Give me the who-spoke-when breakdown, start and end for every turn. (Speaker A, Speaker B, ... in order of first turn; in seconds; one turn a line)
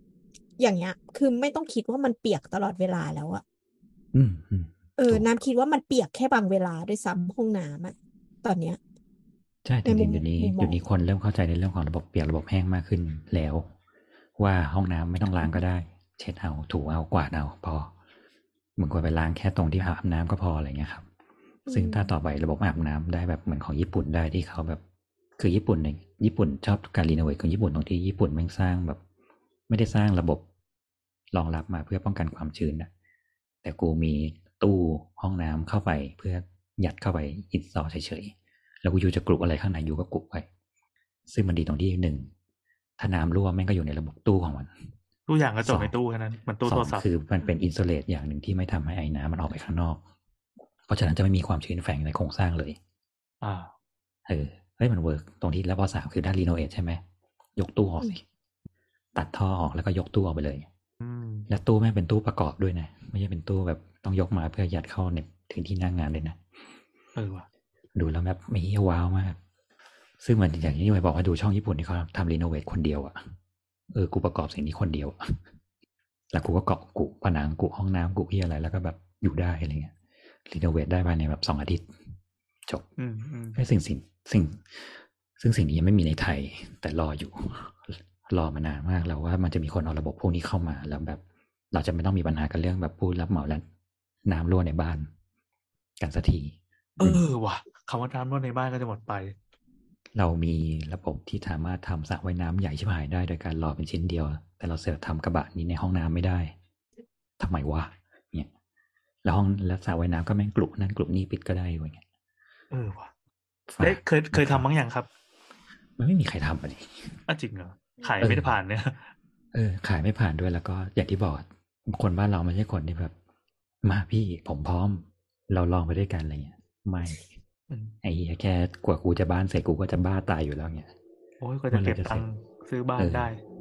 Speaker A: 0.6-3.4
Speaker B: 4.1-5.3
Speaker A: 5.0-8.8
Speaker B: 9.7-13.7
Speaker A: 9.8-10.8
Speaker B: 14.4-17.9
Speaker B: 18.8-21.1
Speaker A: 21.7-22.1
Speaker B: 21.7-24.8
Speaker B: 25.4-29.0
Speaker B: 29.7-30.4
Speaker B: 31.3-32.9
Speaker B: 33.6-40.5
Speaker B: 41.3-42.3
Speaker B: 43.0-44.7
Speaker C: 45.3-47.0
Speaker B: 45.6-45.9
Speaker B: 46.6-50.0
Speaker B: 50.9-52.8
Speaker C: 53.4-53.7
Speaker B: 54.3-57.0
Speaker B: 57.6-58.2
Speaker B: 59.1-60.7
Speaker C: 61.0-61.5
Speaker B: 61.5-66.4
Speaker C: 67.2-67.5
Speaker B: 68.0-69.4
Speaker B: 70.2-73.3
Speaker B: 73.9-75.4
Speaker B: 76.3-80.0
Speaker B: 80.5-82.1
Speaker C: 83.0-83.6
Speaker B: 83.5-93.7
Speaker B: 94.3-95.1
Speaker B: 96.0-97.2
Speaker C: 97.0-99.3
Speaker B: 100.1-106.5
Speaker B: 107.4-108.5
Speaker B: 109.2-112.0
Speaker C: 112.7-113.1
Speaker B: 113.7-114.7
Speaker C: 113.8-115.1
Speaker B: 116.0-117.2
Speaker C: 117.3-119.1
Speaker B: 118.2-118.6
Speaker B: 119.5-123.2
Speaker B: 123.8-127.3
Speaker B: 128.0-130.9
Speaker C: 131.4-133.4
Speaker B: 131.7-132.3
Speaker B: 133.0-133.3